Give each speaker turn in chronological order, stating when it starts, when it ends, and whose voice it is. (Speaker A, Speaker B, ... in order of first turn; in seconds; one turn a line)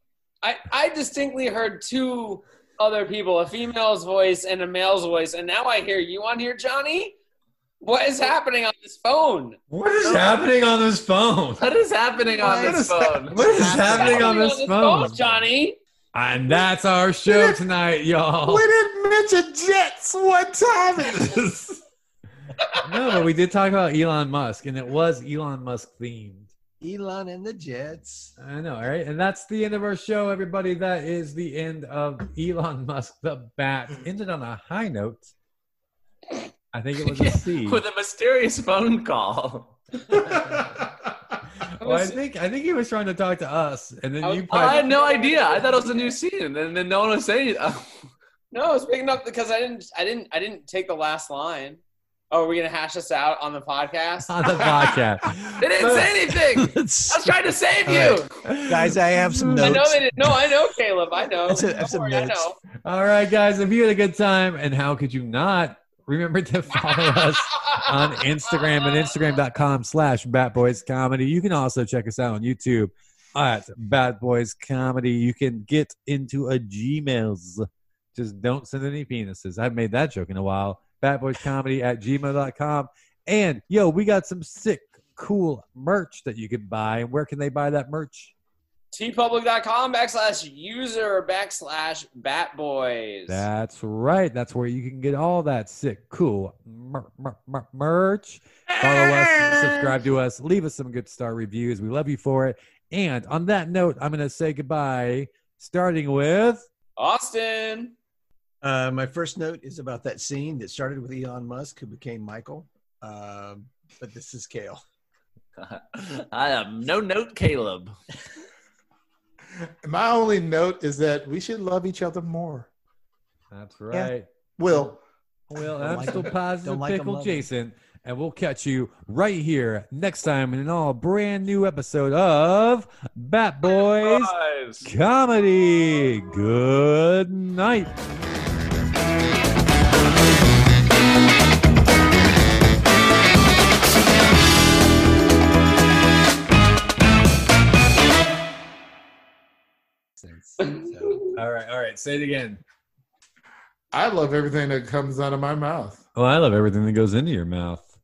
Speaker A: 0.4-7.2
Speaker A: 7.8-9.6
Speaker B: 9.7-11.7
Speaker C: 11.6-13.6
Speaker D: 12.4-14.4
Speaker E: 12.4-13.6
Speaker B: 13.3-15.4
Speaker A: 14.0-15.8
Speaker B: 16.1-18.7
Speaker E: 17.3-17.6
Speaker E: 18.4-21.8
Speaker A: 22.6-22.9
Speaker B: 22.8-26.5
Speaker D: 26.8-28.3
Speaker B: 28.4-35.3
Speaker B: 36.7-37.8
Speaker C: 37.6-40.3
Speaker E: 40.3-41.4
Speaker B: 41.6-44.9
Speaker A: 41.8-42.2
Speaker A: 44.2-46.1
Speaker C: 44.5-47.9
Speaker A: 48.5-54.4
Speaker B: 54.3-56.2
Speaker C: 55.6-58.3
Speaker D: 56.5-57.4
Speaker B: 57.9-59.8
Speaker D: 58.7-60.3
Speaker A: 59.6-62.6
Speaker D: 61.5-62.5
Speaker B: 62.8-88.3
Speaker A: 67.5-67.9
Speaker A: 68.5-69.2
Speaker A: 88.9-93.5
Speaker B: 93.3-106.7
Speaker E: 98.7-100.0
Speaker A: 107.0-108.0
Speaker D: 108.6-114.8
Speaker C: 115.6-117.9
Speaker E: 119.8-122.7
Speaker B: 123.5-124.3
Speaker E: 123.9-125.0
Speaker B: 125.5-137.9
Speaker D: 125.8-127.5
Speaker C: 133.7-134.9
Speaker D: 150.2-151.2
Speaker A: 150.6-151.4
Speaker B: 151.3-152.6
Speaker E: 153.9-156.0
Speaker B: 156.2-157.9